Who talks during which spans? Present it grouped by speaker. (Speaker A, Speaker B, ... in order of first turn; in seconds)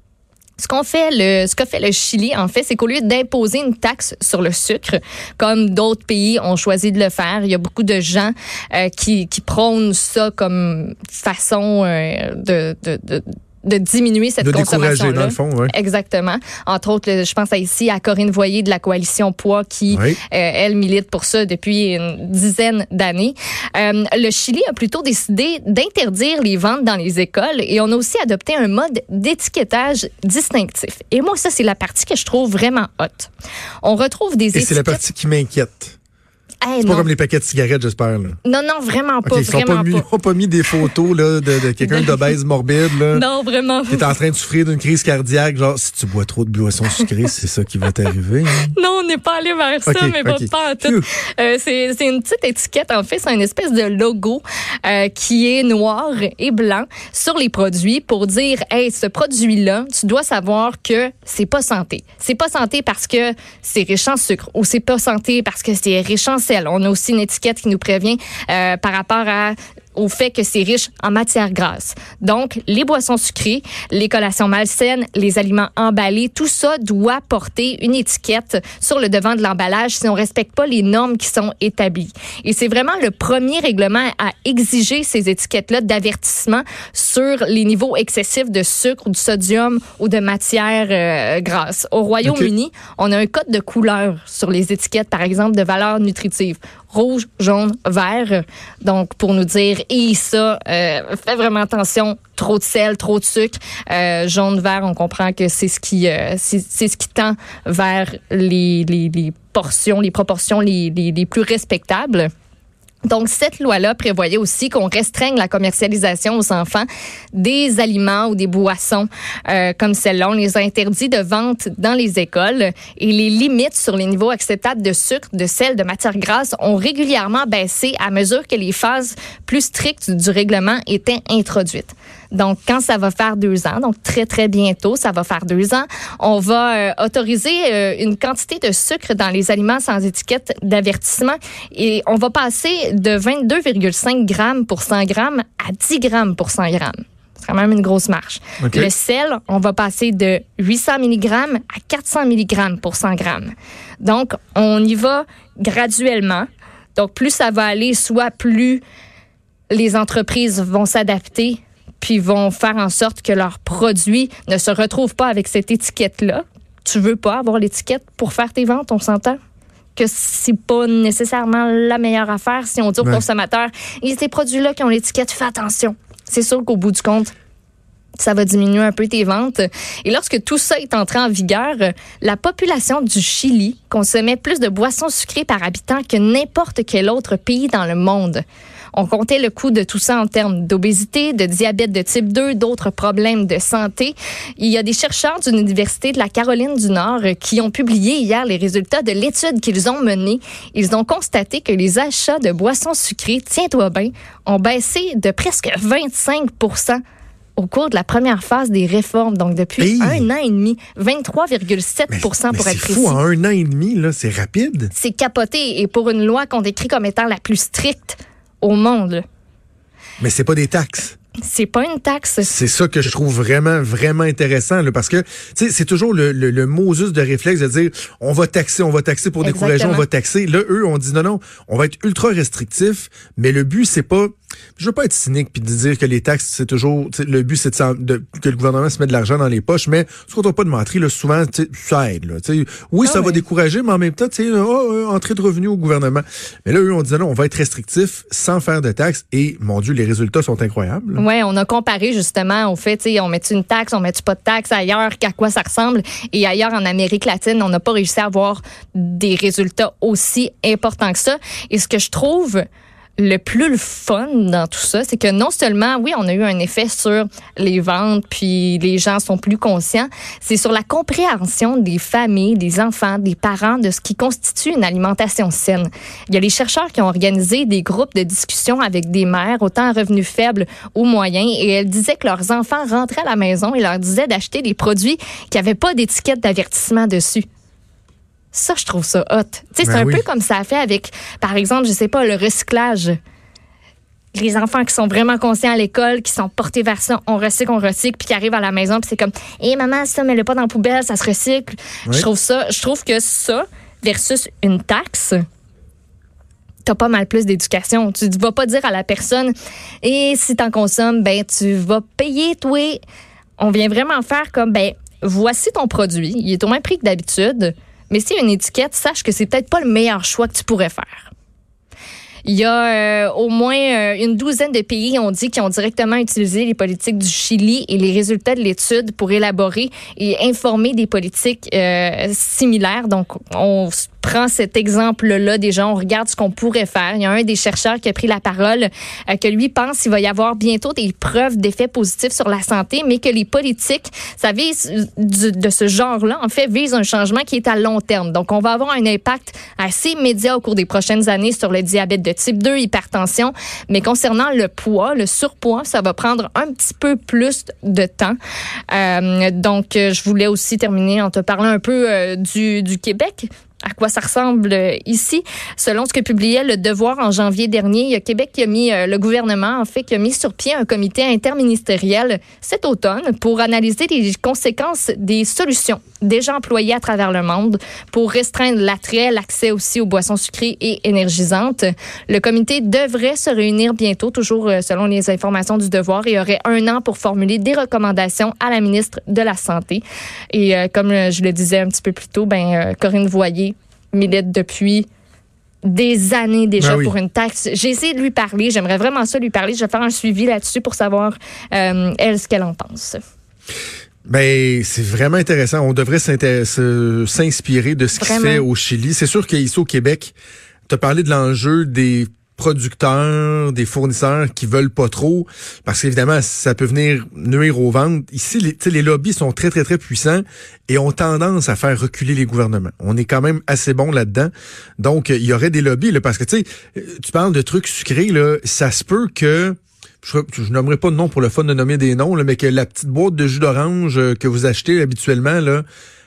Speaker A: 0.6-33.3, 33.8-35.0, 36.6-37.1, 38.4-40.1, 41.8-42.3, 43.1-44.1, 48.6-112.3, 113.1-158.8, 159.7-169.4, 169.9-177.3, 178.2-188.4, 188.9-207.0, 207.6-213.2, 214.9-219.2, 221.4-222.5, 229.4-230.0, 243.0-243.4, 251.2-262.6, 263.2-287.4, 288.5-293.2, 294.3-305.4, 306.9-313.0, 313.6-321.3, 322.4-358.4, 358.9-395.1, 395.8-403.2, 408.1-408.6
Speaker B: 14.4-15.7, 19.9-20.2, 34.5-36.0, 36.8-38.4, 39.2-43.2, 43.9-48.7, 49.9-51.0, 92.2-92.5, 148.6-148.9, 209.8-210.3, 212.1-214.9, 220.2-221.2, 222.4-251.2, 289.8-290.2, 396.8-397.1, 404.2-410.3, 410.9-435.8